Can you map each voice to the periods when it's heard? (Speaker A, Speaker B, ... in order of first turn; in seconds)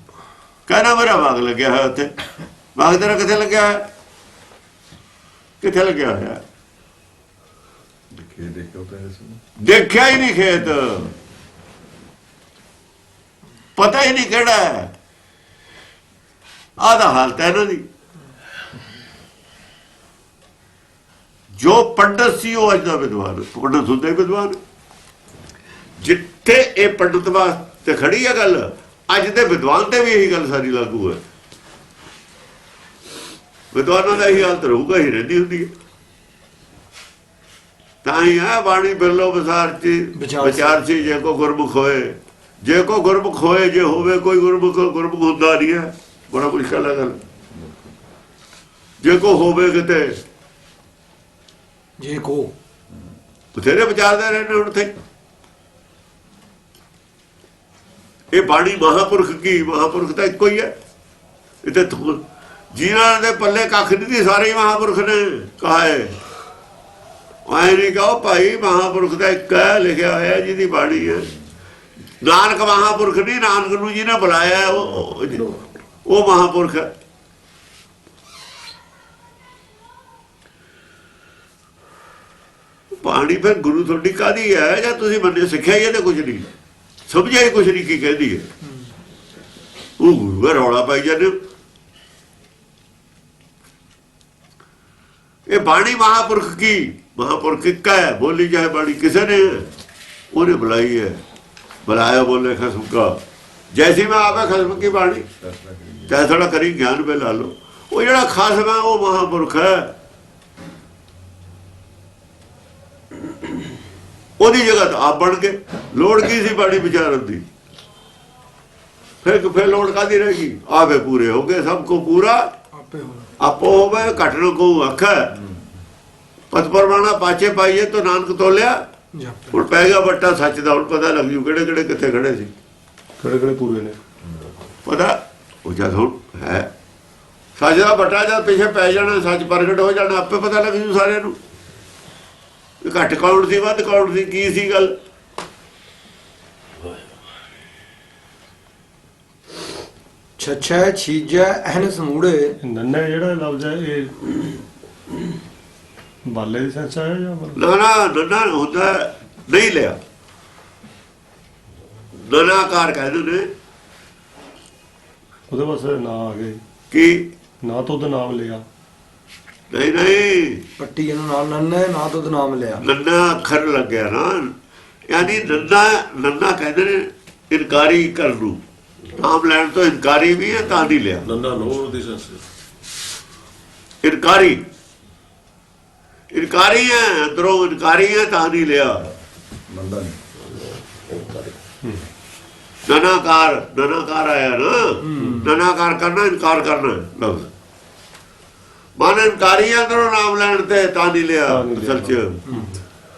Speaker A: 0.7-2.1, 2.8-3.9, 5.6-6.4, 9.6-11.1, 13.8-14.9, 16.8-17.8, 21.6-24.6, 26.0-31.2, 33.7-35.7, 38.0-47.2, 49.0-50.2, 53.5-54.9, 58.3-60.7, 61.6-66.2, 67.5-71.3, 72.2-75.5, 76.0-76.9, 83.0-86.5, 87.1-88.5, 90.0-91.4, 95.5-99.7, 100.3-101.2, 101.8-103.2, 103.7-105.2, 106.1-109.9, 114.4-117.4, 119.2-122.5, 123.4-125.4, 126.5-128.8, 129.5-132.5, 134.8-136.7, 137.6-141.4, 142.8-144.9, 157.6-160.0, 162.2-163.5, 166.9-167.3, 169.7-170.6, 172.8-174.5, 175.1-178.6, 179.2-181.3, 184.0-184.6, 186.3-189.0, 192.9-197.5, 199.0-202.4
Speaker B: 8.1-9.4, 47.4-48.0, 104.5-106.2, 189.7-190.2
Speaker C: 40.1-40.8, 52.0-52.5, 122.7-123.3, 129.1-129.5, 150.4-152.6, 170.8-172.8, 195.0-195.5
Speaker D: 75.3-75.7, 181.2-182.4, 191.1-191.5
Speaker E: 133.2-134.0, 152.6-154.6, 156.3-157.6, 165.5-166.6, 167.6-168.6, 195.1-195.5, 201.5-202.7